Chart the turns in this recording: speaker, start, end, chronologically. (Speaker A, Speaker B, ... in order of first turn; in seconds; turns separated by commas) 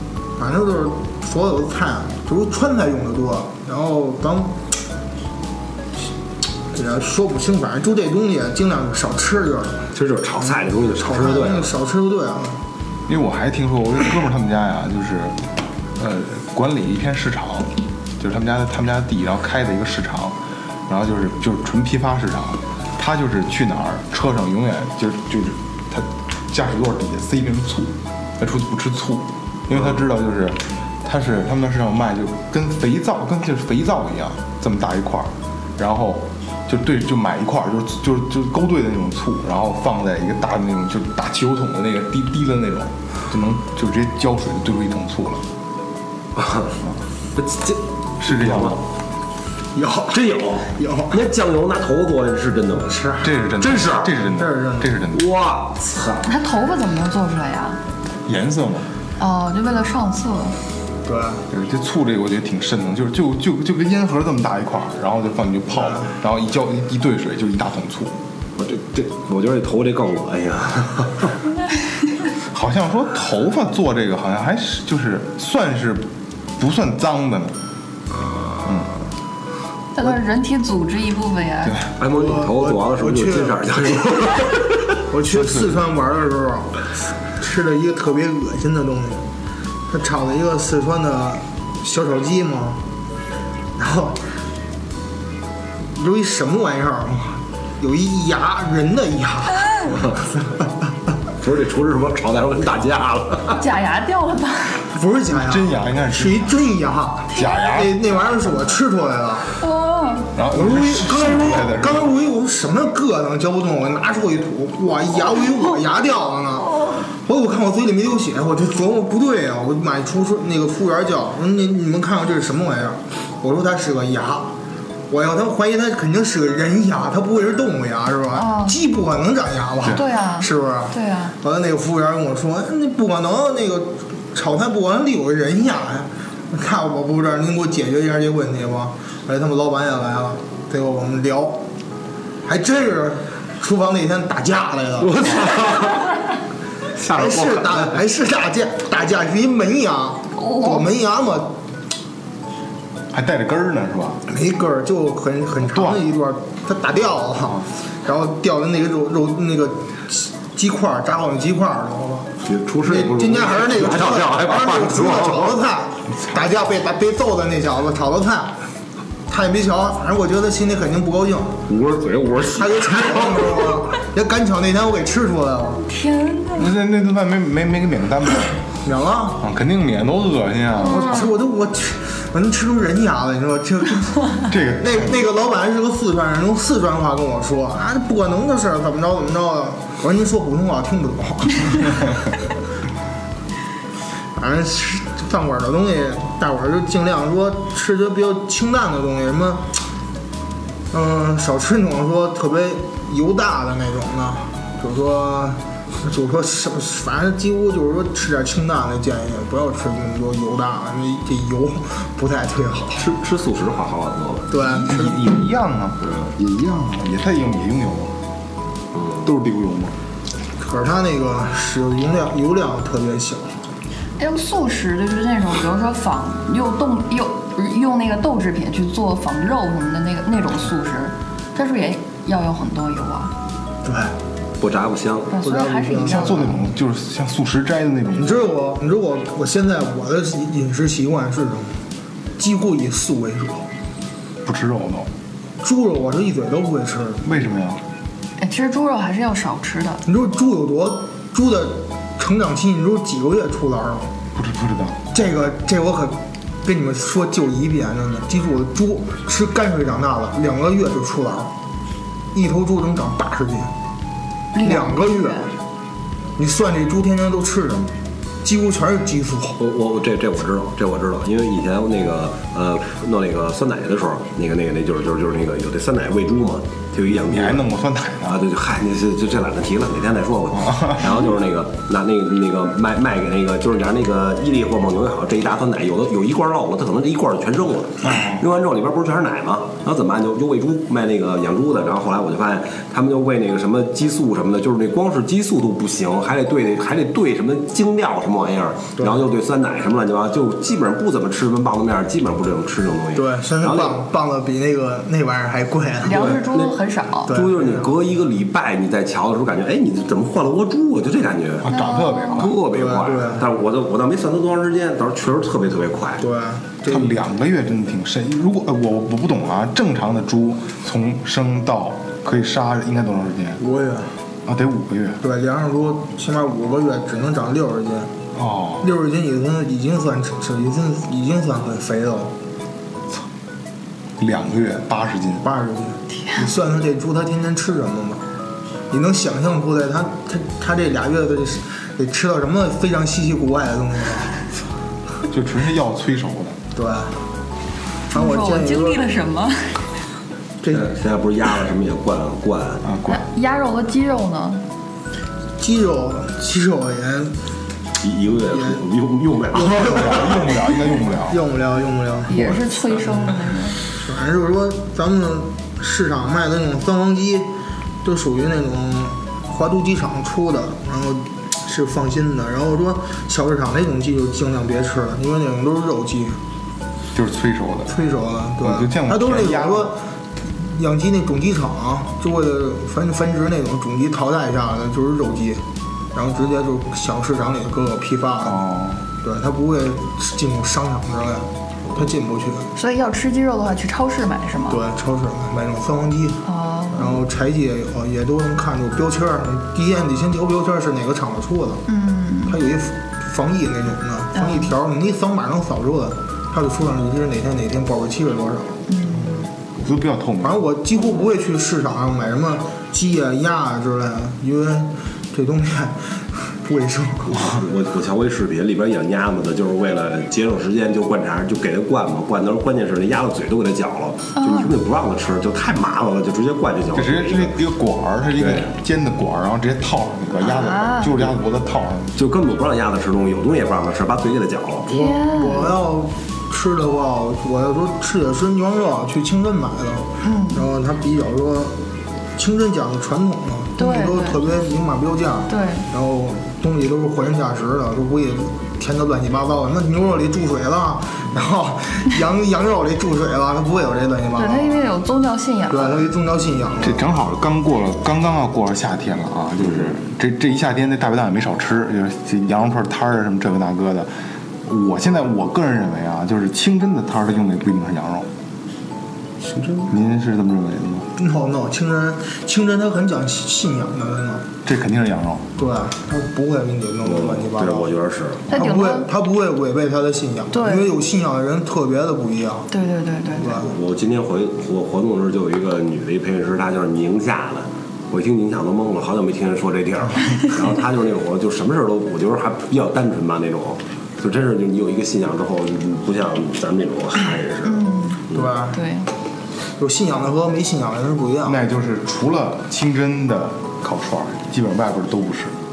Speaker A: 0.4-4.7, Speaker A: 6.7-9.8, Speaker B: 9.9-11.7, Speaker A: 10.4-12.6, Speaker C: 13.1-15.4, Speaker C: 16.0-20.4, Speaker C: 20.9-45.4, Speaker B: 46.4-46.8, Speaker B: 47.4-48.8, Speaker C: 48.2-48.8, Speaker A: 49.7-51.2, Speaker B: 50.1-53.0, Speaker A: 52.9-53.3, Speaker C: 53.2-55.2, Speaker B: 53.6-54.1, Speaker A: 54.3-54.9, Speaker B: 55.1-56.2, Speaker D: 56.2-57.8, Speaker C: 58.2-58.9, Speaker D: 59.2-60.6, Speaker A: 61.0-61.4, Speaker C: 61.5-68.2, Speaker A: 65.8-66.1, Speaker B: 68.6-71.4, Speaker C: 72.5-77.5, Speaker B: 78.1-78.7, Speaker C: 78.6-78.9, Speaker D: 79.9-81.8, Speaker B: 82.0-84.8, Speaker A: 82.1-84.0, Speaker A: 85.1-86.8, Speaker C: 85.3-85.7, Speaker A: 87.4-89.3, Speaker A: 89.9-92.8, Speaker A: 93.8-94.2, Speaker A: 96.0-100.5, Speaker B: 101.4-103.6, Speaker D: 103.5-104.8, Speaker A: 104.9-109.5, Speaker C: 105.3-106.5, Speaker C: 107.3-108.7, Speaker D: 109.6-110.3, Speaker C: 110.3-112.1, Speaker A: 110.5-124.5, Speaker A: 125.1-141.6, Speaker D: 128.3-128.8, Speaker D: 129.9-131.3, Speaker A: 142.4-145.3, Speaker B: 145.0-146.1, Speaker B: 146.9-147.9, Speaker A: 147.1-151.6, Speaker D: 150.4-150.8, Speaker C: 153.1-154.2, Speaker A: 154.3-162.3, Speaker C: 155.6-156.1, Speaker B: 162.4-165.6, Speaker A: 162.8-168.6, Speaker A: 169.3-171.6, Speaker B: 171.7-173.7, Speaker A: 172.5-175.9, Speaker D: 175.8-176.7, Speaker C: 176.5-178.6, Speaker A: 178.8-179.4, Speaker C: 179.4-181.2, Speaker D: 180.8-181.3, Speaker A: 180.8-192.2, Speaker C: 184.5-185.1, Speaker A: 194.3-199.7, Speaker A: 200.9-213.0, Speaker B: 213.0-214.5, Speaker A: 214.5-215.2, Speaker C: 214.6-218.1, Speaker B: 216.0-216.3, Speaker B: 218.9-219.2, Speaker C: 219.2-219.9, Speaker A: 220.6-223.6, Speaker D: 224.2-233.3, Speaker A: 233.8-234.2, Speaker B: 234.6-235.3, Speaker D: 235.3-236.6, Speaker A: 235.4-236.6, Speaker C: 236.0-238.4, Speaker A: 238.2-241.8, Speaker A: 242.4-243.7, Speaker C: 244.4-245.1, Speaker A: 245.6-247.2, Speaker C: 247.2-247.8, Speaker D: 248.4-250.0, Speaker A: 250.1-254.1, Speaker C: 254.3-255.0, Speaker A: 255.1-261.5, Speaker A: 262.3-263.7, Speaker D: 264.5-265.5, Speaker A: 264.6-265.5, Speaker A: 266.4-269.6, Speaker B: 269.6-277.7, Speaker C: 277.1-278.4, Speaker B: 278.2-304.0, Speaker C: 280.6-281.1, Speaker C: 288.0-288.4, Speaker A: 299.0-299.2, Speaker A: 303.1-306.3, Speaker D: 306.0-307.3, Speaker B: 306.1-311.6, Speaker A: 307.3-307.9, Speaker C: 311.6-312.6, Speaker D: 311.7-312.5, Speaker B: 312.3-316.2, Speaker A: 312.7-313.4, Speaker A: 316.2-317.2, Speaker C: 316.9-323.6, Speaker A: 323.6-324.2, Speaker C: 324.4-325.2, Speaker A: 325.2-328.1, Speaker C: 328.4-328.9, Speaker A: 328.8-332.3, Speaker C: 334.2-335.4, Speaker A: 335.4-338.2, Speaker A: 338.9-344.4, Speaker C: 345.3-346.6, Speaker A: 346.7-347.2, Speaker A: 348.1-349.0, Speaker D: 348.1-349.8, Speaker A: 350.6-350.9, Speaker B: 350.7-352.9, Speaker C: 352.8-353.2, Speaker D: 353.1-354.6, Speaker A: 355.6-357.4, Speaker B: 358.0-360.5, Speaker A: 359.5-360.5, Speaker C: 359.6-361.4, Speaker A: 361.2-362.5, Speaker D: 362.3-363.8, Speaker C: 362.3-363.0, Speaker A: 363.9-367.5, Speaker A: 368.0-376.4, Speaker C: 377.1-377.9, Speaker A: 377.9-388.6, Speaker C: 378.6-379.9, Speaker C: 388.4-389.0, Speaker A: 389.2-392.7, Speaker D: 392.8-394.8, Speaker A: 394.7-401.8, Speaker D: 396.4-397.0, Speaker D: 401.9-402.6, Speaker A: 402.4-408.9, Speaker D: 404.4-404.7, Speaker D: 408.9-409.4, Speaker C: 409.8-410.6, Speaker A: 410.4-417.4, Speaker B: 417.2-427.6, Speaker D: 424.4-424.8, Speaker C: 426.9-432.1, Speaker B: 428.4-428.7, Speaker D: 430.4-431.2, Speaker B: 432.1-435.1, Speaker D: 434.9-435.7, Speaker A: 435.0-441.8, Speaker D: 440.2-440.7, Speaker A: 442.4-454.8, Speaker D: 443.8-444.5, Speaker D: 445.5-445.9, Speaker D: 454.4-456.1, Speaker A: 455.7-457.0, Speaker C: 456.8-464.1, Speaker C: 464.6-468.3, Speaker B: 469.4-469.9, Speaker C: 469.9-471.1, Speaker A: 471.2-474.4, Speaker C: 474.6-475.4, Speaker A: 475.6-477.9, Speaker B: 477.0-478.5, Speaker D: 478.5-479.1, Speaker A: 478.5-482.7, Speaker D: 480.5-480.9, Speaker D: 482.7-483.6, Speaker A: 483.4-483.7, Speaker B: 483.6-498.5, Speaker D: 497.6-499.1, Speaker A: 498.3-498.8, Speaker A: 499.8-501.6, Speaker C: 501.4-505.5